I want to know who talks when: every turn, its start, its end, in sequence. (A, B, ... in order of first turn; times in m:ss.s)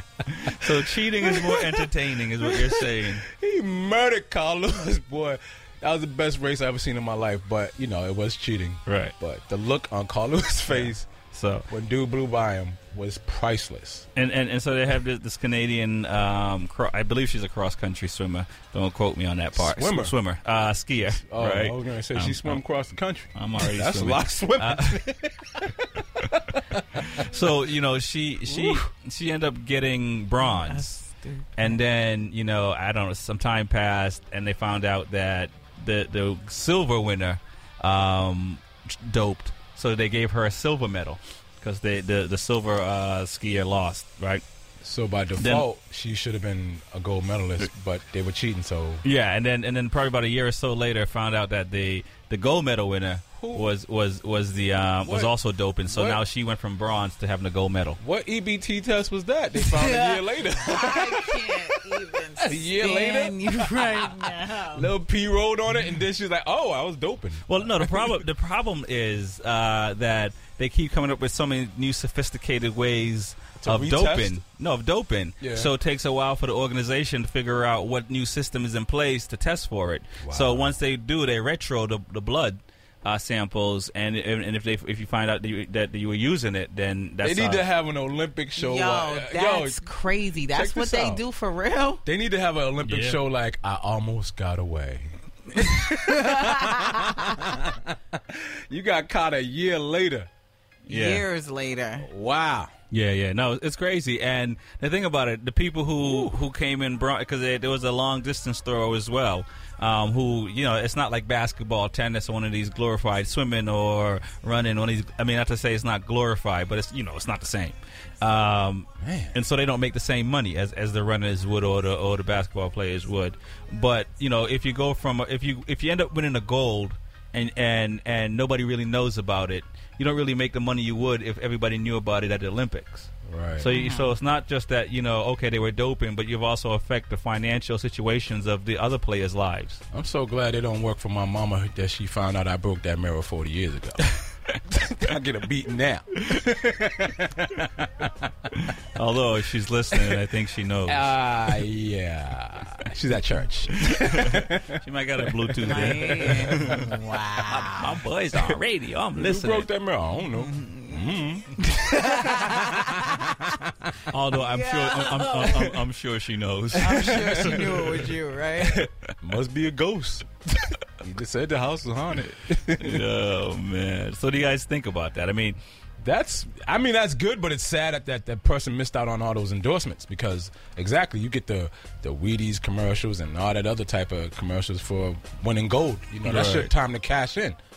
0:00.4-0:03.2 A
0:00.6-0:11.1 B
0:08.9-0:09.1 A
0:10.7-0:11.6 A
0:11.7-0:14.1 B
0:14.2-0:22.6 A
0:19.6-0:20.2 B
0:21.2-0:27.2 B
0:23.3-0:25.0 A
0:27.1-0:31.0 A
0:28.5-0:28.9 B
0:30.4-0:31.8 C
0:31.6-0:44.4 A
0:44.8-0:49.0 B
0:45.4-0:45.6 A
0:49.0-0:58.0 A
0:53.4-0:53.7 B
0:55.0-0:55.3 B
0:55.9-0:56.2 B
0:58.0-1:08.2 B
0:59.6-1:04.9 C
1:07.5-1:27.6 A
1:13.6-1:14.4 B
1:15.4-1:15.7 B
1:20.2-1:20.8 B
1:27.2-1:29.9 B
1:28.6-1:32.0 C
1:30.5-1:31.2 B
1:32.0-1:40.3 B
1:32.8-1:33.2 A
1:36.0-1:37.3 C
1:40.9-1:42.1 C
1:40.9-1:41.2 A
1:42.0-1:42.7 B
1:42.9-2:19.8 A
1:46.0-1:46.4 B
1:59.0-1:59.4 B
2:13.2-2:13.7 B
2:13.7-2:14.1 C
2:19.9-2:24.0 B
2:24.7-2:28.5 B
2:29.0-2:31.1 A
2:29.9-2:30.2 B
2:30.8-2:36.9 B
2:33.8-2:36.9 A
2:35.6-2:38.0 C
2:37.4-2:39.7 A
2:39.1-2:43.7 B
2:40.4-2:41.0 C
2:41.6-2:43.1 C
2:44.1-2:48.0 A
2:44.4-2:45.7 C
2:46.8-2:48.8 C
2:46.8-2:47.8 B
2:48.6-2:53.0 B
2:52.8-2:55.6 A
2:56.0-3:07.6 B
3:06.2-3:06.7 A